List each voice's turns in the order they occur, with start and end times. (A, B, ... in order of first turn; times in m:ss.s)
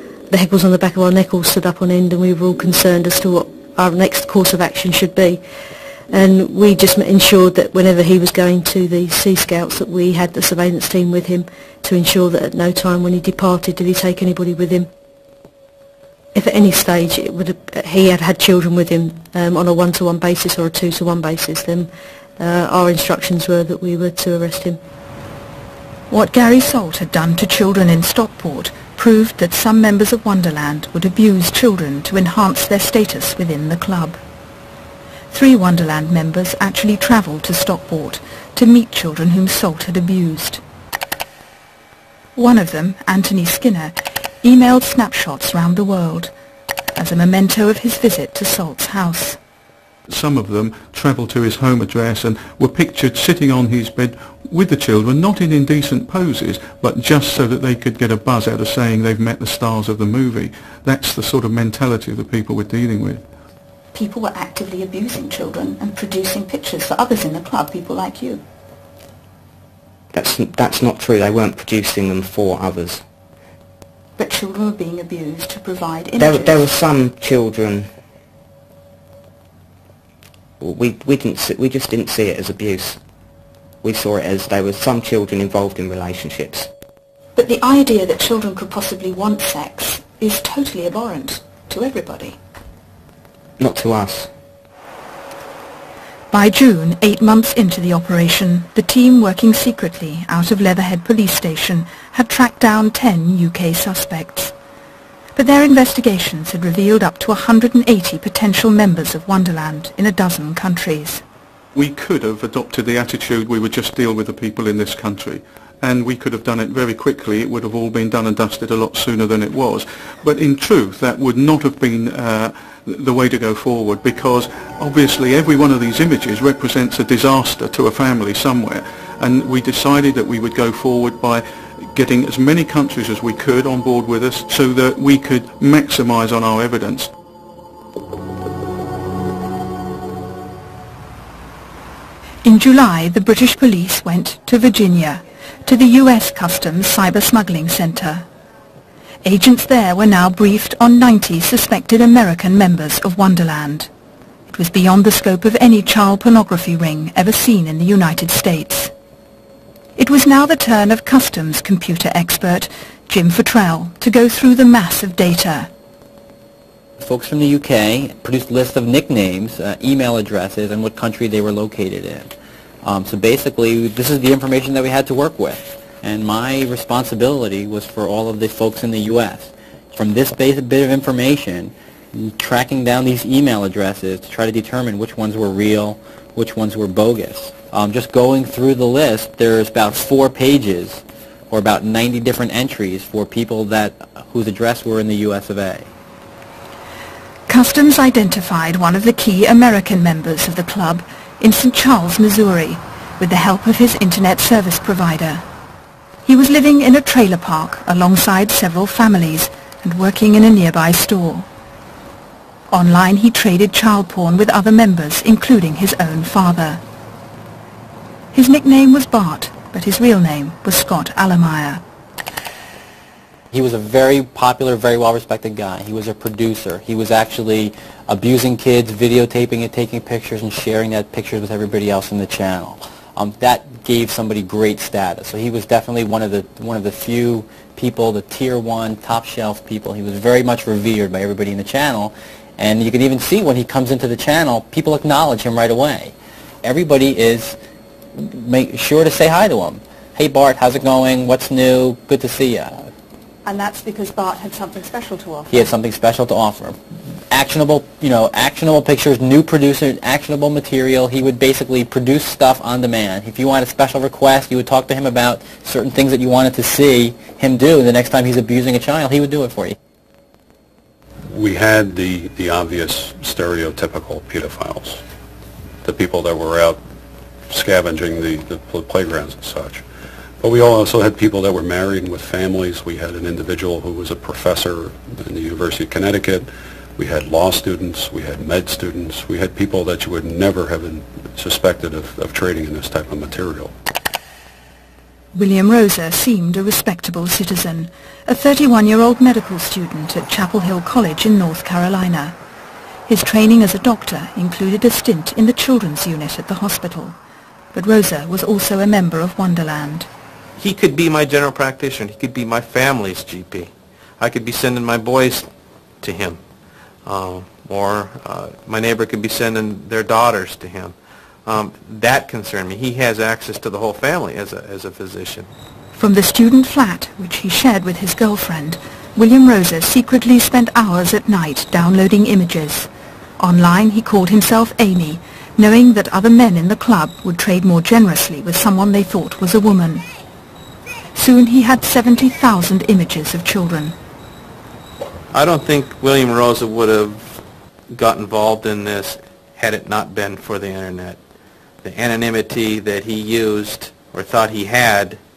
0:00.3-0:05.4 A
0:06.1-0:14.9 A
0:16.3-0:24.8 A
0:26.1-0:34.2 B
0:35.3-0:40.6 B
0:42.4-0:46.3 B
0:47.0-0:49.4 B
0:50.1-1:03.2 C
1:03.9-1:08.4 B
1:10.1-1:13.0 D
1:14.2-1:16.7 B
1:16.2-1:17.9 D
1:20.6-1:23.0 D
1:23.8-1:26.7 D
1:27.4-1:32.4 B
1:33.6-1:34.3 D
1:36.3-1:44.5 B
1:45.4-1:51.2 B
1:51.8-2:17.1 C
2:22.4-2:28.3 B
2:29.2-2:33.9 B
2:34.5-2:38.9 B
2:40.0-2:45.7 B
2:47.0-2:52.3 E
2:52.8-3:15.9 E
3:17.5-3:25.4 B
3:26.3-3:31.5 B
3:32.7-3:36.8 B
3:38.3-3:41.8 B
3:43.5-4:07.6 E
4:08.2-4:12.9 E
4:13.4-4:15.7 B
4:15.5-4:16.8 E
4:17.3-4:29.8 E
4:31.2-4:35.0 F
4:35.8-4:36.8 F
4:37.5-4:39.8 F
4:40.4-4:53.7 F
4:55.3-5:02.4 B
5:03.1-5:07.2 B
5:07.7-5:10.1 B
5:10.6-5:15.5 G
5:16.0-5:16.4 G
5:17.0-5:21.0 G
5:21.5-5:25.5 G
5:26.0-5:40.1 B
5:41.2-5:44.0 B
5:45.3-5:51.2 G
5:51.8-5:55.2 G